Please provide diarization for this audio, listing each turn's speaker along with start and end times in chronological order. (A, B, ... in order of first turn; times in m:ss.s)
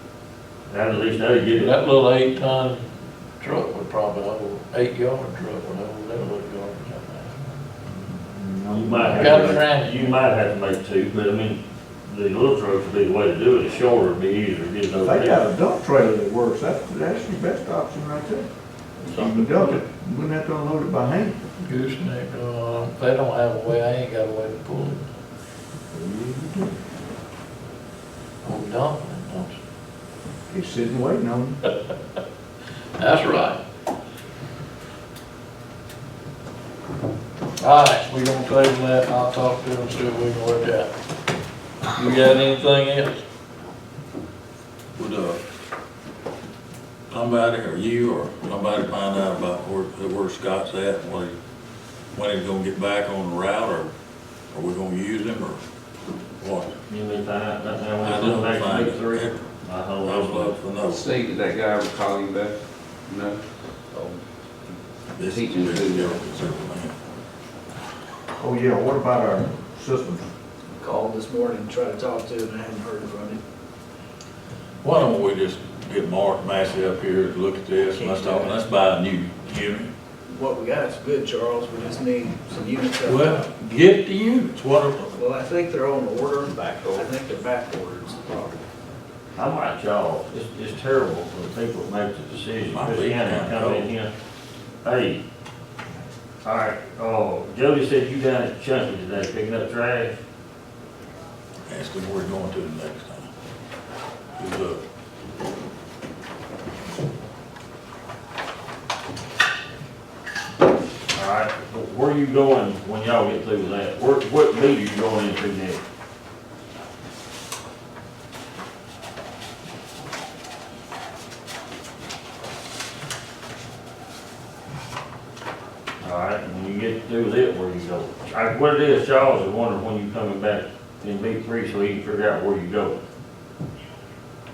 0:00.7-0:01.7 A
0:01.5-0:02.8 B
0:03.4-0:07.4 B
0:07.9-0:09.6 C
0:08.7-0:15.4 A
0:09.1-0:10.1 B
0:15.0-0:18.5 C
0:19.1-0:19.8 A
0:19.1-0:21.4 C
0:21.6-0:25.0 B
0:25.9-0:26.7 C
0:28.4-0:29.6 B
0:30.5-0:31.6 C
0:33.0-0:33.6 B
0:37.6-0:40.9 B
0:41.9-0:43.2 B
0:45.0-0:45.4 D
0:47.1-0:51.4 D
0:52.1-0:53.9 D
0:54.5-0:55.6 D
0:56.4-0:56.7 D
0:56.9-1:00.6 A
0:58.0-0:59.4 D
1:00.0-1:01.0 D
1:00.8-1:02.6 E
1:03.1-1:03.4 E
1:05.2-1:06.9 D
1:05.2-1:06.2 E
1:08.4-1:10.3 C
1:10.9-1:13.3 F
1:14.8-1:19.9 D
1:20.4-1:23.2 F
1:23.0-1:25.1 D
1:25.2-1:26.4 F
1:27.1-1:28.5 F
1:29.4-1:34.1 A
1:32.7-1:33.9 D
1:34.8-1:35.2 A
1:36.4-1:40.2 A
1:41.7-1:43.3 D
1:44.4-1:44.8 D
1:51.1-1:55.8 A
2:06.0-2:13.0 A